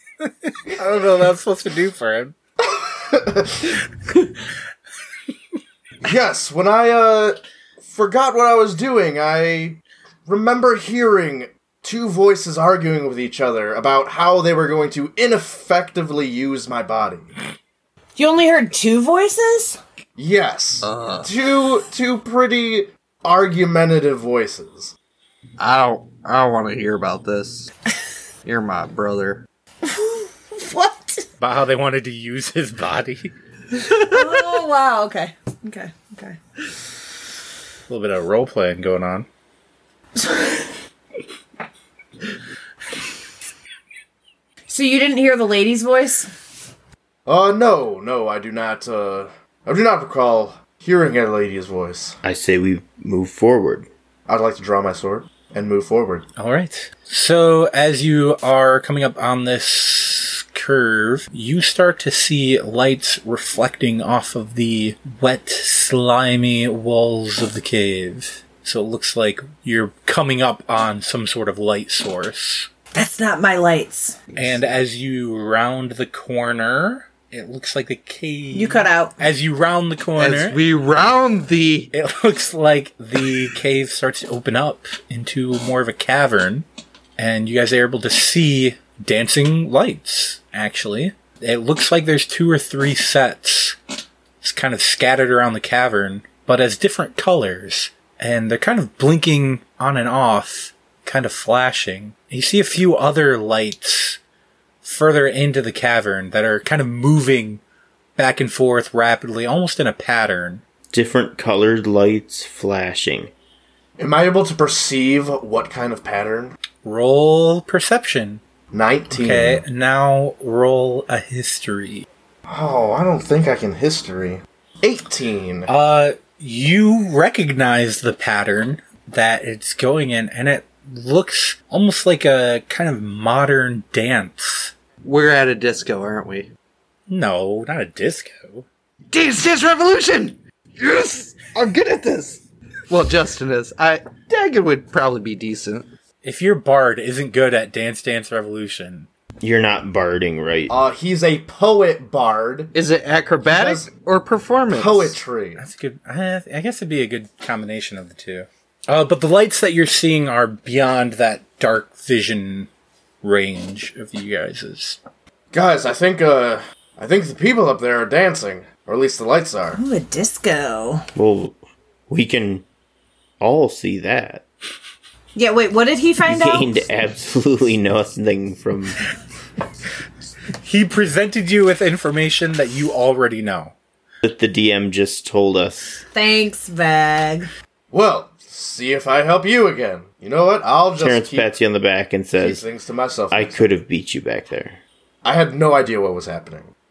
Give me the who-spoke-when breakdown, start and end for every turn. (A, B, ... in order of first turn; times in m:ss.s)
0:00.2-0:02.3 A
0:02.8-0:03.7 B
0:06.0-0:17.3 B
0:18.2-0:19.8 C
0:20.2-0:24.9 B
0:20.8-0:21.3 D
0:25.6-0:27.7 D
0:28.4-0:29.4 D
0:29.8-0:31.3 C
0:31.4-0:33.3 A
0:34.0-0:36.7 C
0:37.9-0:39.3 A
0:40.2-0:40.6 C
0:44.7-0:46.3 C
0:47.2-0:52.2 B
0:52.2-0:53.9 E
0:54.3-0:56.2 B
0:56.4-1:12.7 A
1:12.9-1:14.2 C
1:14.4-1:20.6 A
1:18.5-1:19.2 C
1:20.2-1:21.9 D
1:21.9-1:26.6 A
1:27.2-1:33.8 A
1:34.4-1:44.2 A
1:44.8-1:47.6 A
1:48.2-1:50.6 A
1:50.9-1:53.3 E
1:54.0-1:56.5 B
1:56.8-1:58.4 A
1:58.7-1:59.6 B
1:59.1-2:02.1 A
2:02.5-2:05.7 B
2:05.7-2:14.7 A
2:15.0-2:16.5 D
2:17.1-2:18.6 A
2:19.1-2:25.9 D
2:26.2-2:29.1 A
2:29.4-2:30.7 E
2:30.7-2:32.7 B
2:32.7-2:35.2 D
2:33.4-2:33.9 B
2:34.7-2:35.6 B
2:35.6-2:42.7 A
2:43.2-2:45.0 A
2:45.5-2:49.8 B
2:49.8-2:51.0 C
2:51.2-2:51.6 E
2:52.1-2:52.6 E
2:53.4-2:54.4 E
2:55.3-2:56.8 C
2:56.2-2:59.0 E
3:00.6-3:03.7 A
3:04.2-3:06.0 E
3:06.1-3:07.5 C
3:07.9-3:11.5 B
3:11.0-3:12.6 E
3:12.4-3:13.6 B
3:13.3-3:14.8 E
3:15.2-3:16.7 B